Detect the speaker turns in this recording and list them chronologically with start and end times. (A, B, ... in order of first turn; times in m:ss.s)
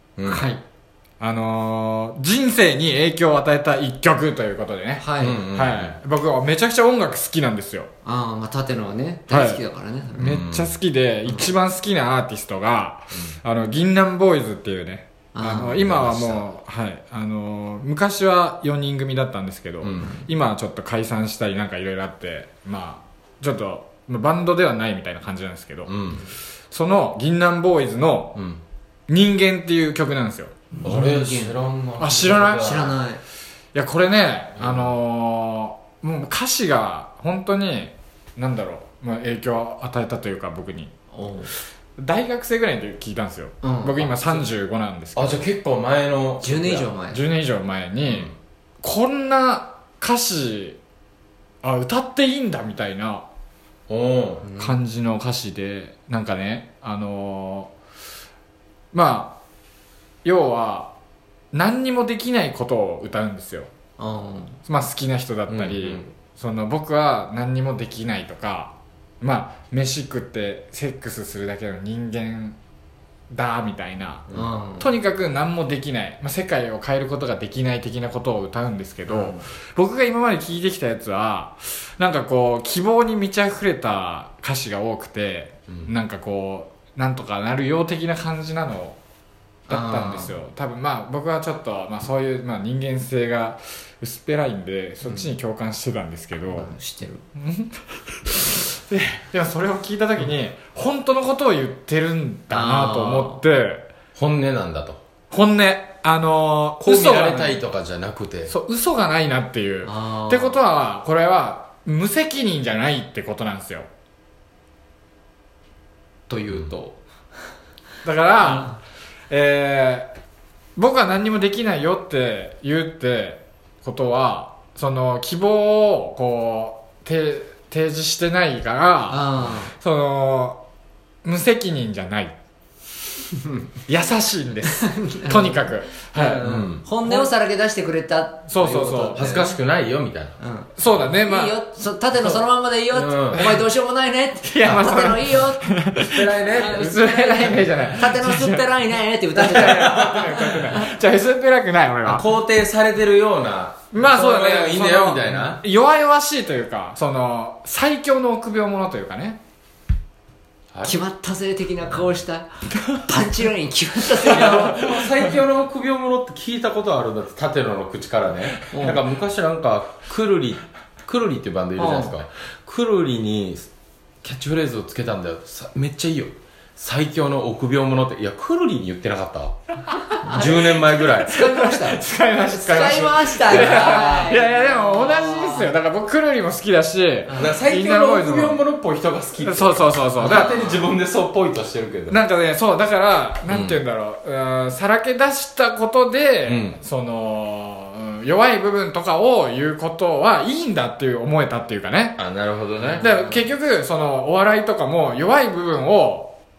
0:00.2-0:00.4 A
0:00.3-0:00.6 B
0:01.2-0:07.9 C
0:05.0-0:05.4 B
0:05.2-0:06.0 A
0:08.0-0:10.3 B
0:09.3-0:09.6 C
0:10.2-0:10.7 A
0:10.2-0:25.9 C
0:15.4-0:15.8 B
0:15.8-0:16.6 A
0:19.8-0:20.2 A
0:25.9-0:26.2 A
0:26.7-0:28.4 C
0:28.4-0:28.6 A
0:29.1-0:30.5 C
0:30.7-0:31.5 B
0:30.8-0:33.0 A
0:32.0-0:32.9 C
0:32.5-0:33.2 B
0:33.7-0:40.9 C
0:34.6-0:35.0 A
0:41.1-0:41.5 B
0:42.0-0:45.5 C
0:43.6-0:44.0 B
0:45.2-0:46.9 A
0:46.4-0:47.2 B
0:47.1-0:48.3 C
0:48.1-0:48.3 A
0:48.8-0:50.8 C
0:51.6-0:53.3 C
0:53.9-0:54.4 A
0:54.4-0:54.8 B
0:54.6-0:57.7 C
0:58.9-0:59.4 C
1:00.2-1:00.9 C
1:01.5-1:03.7 C
1:04.0-1:04.6 B
1:04.7-1:12.6 C
1:05.5-1:06.1 A
1:13.3-1:14.3 C
1:14.3-1:14.9 B
1:14.8-1:29.0 C
1:29.7-1:30.3 B
1:29.7-1:36.7 C
1:35.0-1:35.3 B
1:36.5-1:37.2 B
1:37.4-1:43.9 C
1:42.5-1:43.4 B
1:44.2-1:45.0 A
1:45.3-1:47.6 C
1:46.8-1:48.5 A
1:48.5-1:53.9 C
1:49.8-1:50.6 B
1:56.3-1:57.0 B
1:56.5-1:56.7 A
1:58.0-1:58.8 C
1:58.5-1:58.8 B
1:59.3-2:00.1 C
2:00.8-2:10.6 C
2:09.1-2:09.7 B
2:11.2-2:12.3 C
2:13.9-2:16.4 C
2:14.6-2:19.5 B
2:16.4-2:16.8 A
2:17.0-2:17.3 C
2:18.5-2:19.4 C
2:19.1-2:20.4 A
2:20.4-2:25.7 B
2:20.8-2:21.6 C
2:22.9-2:23.5 A
2:24.4-2:28.7 C
2:26.1-2:26.8 A
2:26.5-2:30.9 B
2:29.4-2:32.3 C
2:29.7-2:30.5 A
2:32.0-2:35.6 A
2:33.9-2:39.4 C
2:40.7-2:41.0 A
2:40.8-2:44.8 B
2:44.2-2:53.7 A
2:44.4-2:45.1 C
2:48.7-2:49.0 B
2:51.8-2:52.2 B
2:54.2-2:59.6 A
3:00.2-3:05.7 B
3:00.3-3:01.3 A
3:01.2-3:08.6 C
3:03.5-3:04.3 A
3:07.3-3:07.6 B
3:07.4-3:12.2 A
3:09.4-3:10.7 C
3:10.2-3:10.9 B
3:12.1-3:22.2 C
3:13.5-3:13.8 A
3:16.4-3:16.8 A
3:22.2-3:23.1 A
3:22.9-3:23.4 B
3:23.0-3:26.4 C